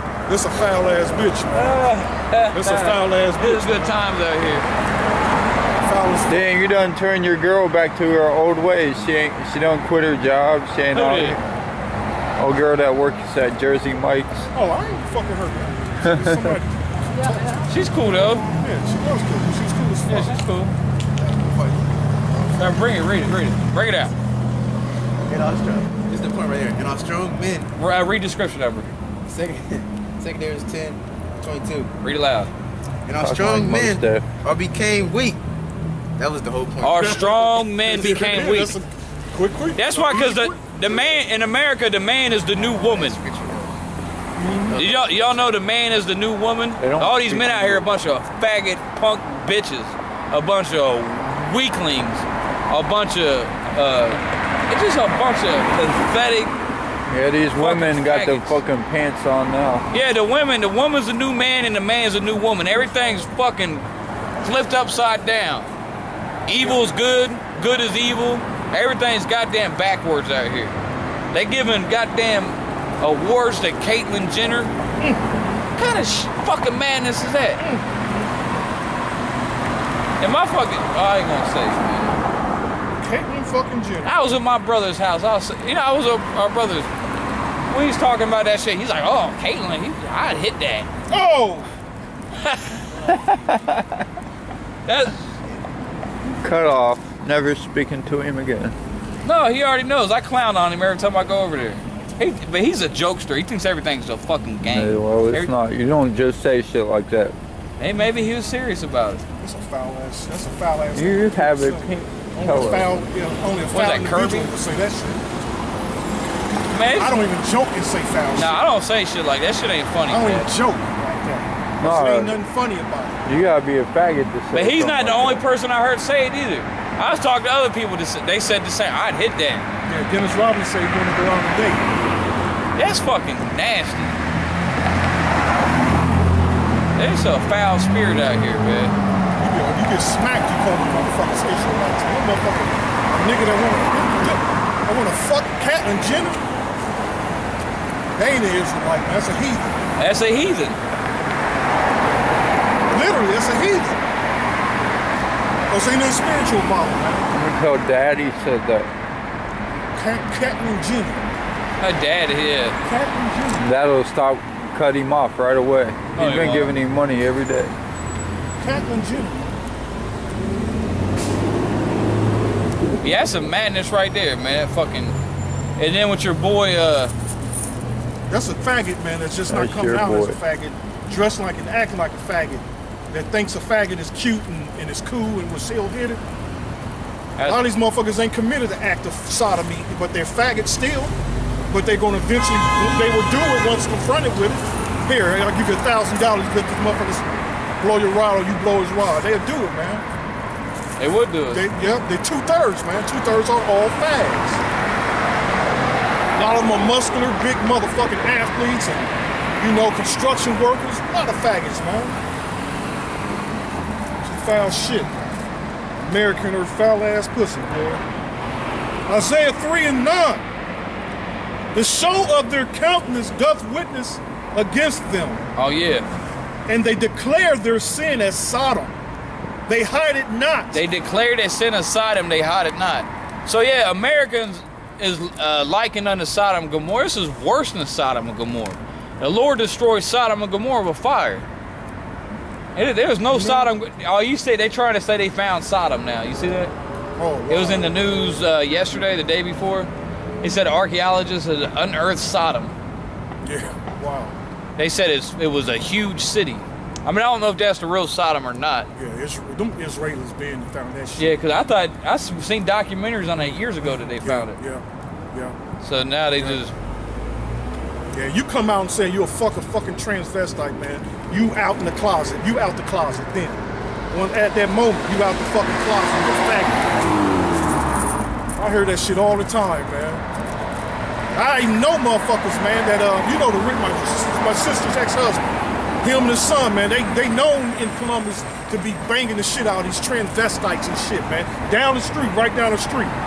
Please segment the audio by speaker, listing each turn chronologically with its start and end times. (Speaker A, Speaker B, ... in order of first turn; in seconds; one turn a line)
Speaker A: 0.3-1.8
Speaker B: 1.5-4.7
Speaker A: 2.5-4.0
Speaker A: 5.8-6.5
Speaker C: 6.3-11.4
Speaker B: 10.9-11.4
Speaker C: 12.4-14.5
Speaker A: 14.5-17.7
Speaker C: 16.0-16.6
Speaker B: 17.7-18.4
Speaker A: 18.5-20.4
Speaker B: 20.1-20.7
Speaker D: 21.1-22.9
Speaker B: 22.6-24.1
Speaker D: 25.2-27.7
Speaker B: 27.8-28.9
Speaker D: 29.3-31.9
Speaker B: 32.0-32.5
Speaker D: 33.0-35.4
Speaker C: 33.2-34.2
Speaker D: 36.2-37.1
Speaker B: 36.8-38.7
Speaker A: 36.9-41.2
Speaker B: 39.8-43.2
Speaker D: 42.5-43.9
Speaker A: 44.4-44.8
Speaker D: 44.6-45.5
Speaker B: 44.7-56.5
Speaker C: 46.8-47.9
Speaker C: 57.1-59.8
Speaker B: 57.6-58.6
Speaker B: 59.9-63.8
Speaker B: 64.4-65.7
Speaker B: 66.5-70.7
Speaker B: 71.3-74.7
Speaker B: 75.8-77.6
Speaker A: 77.6-78.0
Speaker B: 80.2-82.2
Speaker A: 83.0-84.1
Speaker B: 84.0-86.9
Speaker B: 87.7-90.9
Speaker A: 91.1-91.7
Speaker B: 92.4-92.7
Speaker C: 93.3-93.8
Speaker B: 94.9-95.2
Speaker C: 96.4-98.7
Speaker B: 99.2-105.5
Speaker C: 104.7-107.3
Speaker B: 107.8-109.2
Speaker A: 109.4-115.2
Speaker C: 111.0-112.9
Speaker B: 113.7-114.5
Speaker B: 116.7-117.2
Speaker A: 117.0-118.6
Speaker B: 118.3-120.5
Speaker A: 120.1-123.3
Speaker C: 121.8-122.4
Speaker C: 123.2-125.4
Speaker B: 124.5-129.7
Speaker A: 129.8-131.9
Speaker B: 132.8-134.2
Speaker B: 136.9-138.9
Speaker A: 139.4-146.4
Speaker A: 148.2-149.8
Speaker B: 150.0-150.8
Speaker A: 152.9-153.9
Speaker A: 155.7-157.3
Speaker C: 157.3-158.9
Speaker A: 159.7-161.3
Speaker B: 161.8-162.8
Speaker A: 162.8-163.6
Speaker C: 163.5-167.7
Speaker A: 166.1-166.7
Speaker B: 166.2-166.7
Speaker A: 168.6-169.5
Speaker B: 173.0-175.2
Speaker B: 175.8-177.1
Speaker A: 178.3-186.2
Speaker C: 179.5-180.4
Speaker B: 187.4-187.6
Speaker A: 187.4-191.1
Speaker A: 191.7-200.0
Speaker B: 201.0-201.6
Speaker A: 201.5-204.6
Speaker A: 206.3-212.2
Speaker A: 214.2-215.1
Speaker A: 216.0-218.0
Speaker A: 219.1-220.4
Speaker A: 221.7-225.4
Speaker B: 225.6-226.1
Speaker A: 226.7-228.9
Speaker A: 229.7-230.8
Speaker B: 230.7-241.4
Speaker B: 242.7-246.7
Speaker A: 243.3-243.7
Speaker A: 247.2-248.0
Speaker B: 247.5-249.9
Speaker B: 250.4-252.7
Speaker A: 253.4-254.3
Speaker B: 254.8-258.9
Speaker A: 258.9-261.3
Speaker B: 261.2-264.6
Speaker A: 264.2-265.6
Speaker B: 265.8-266.7
Speaker A: 268.1-273.6
Speaker A: 274.1-276.9
Speaker A: 278.6-280.2
Speaker A: 281.3-285.4
Speaker A: 286.0-293.1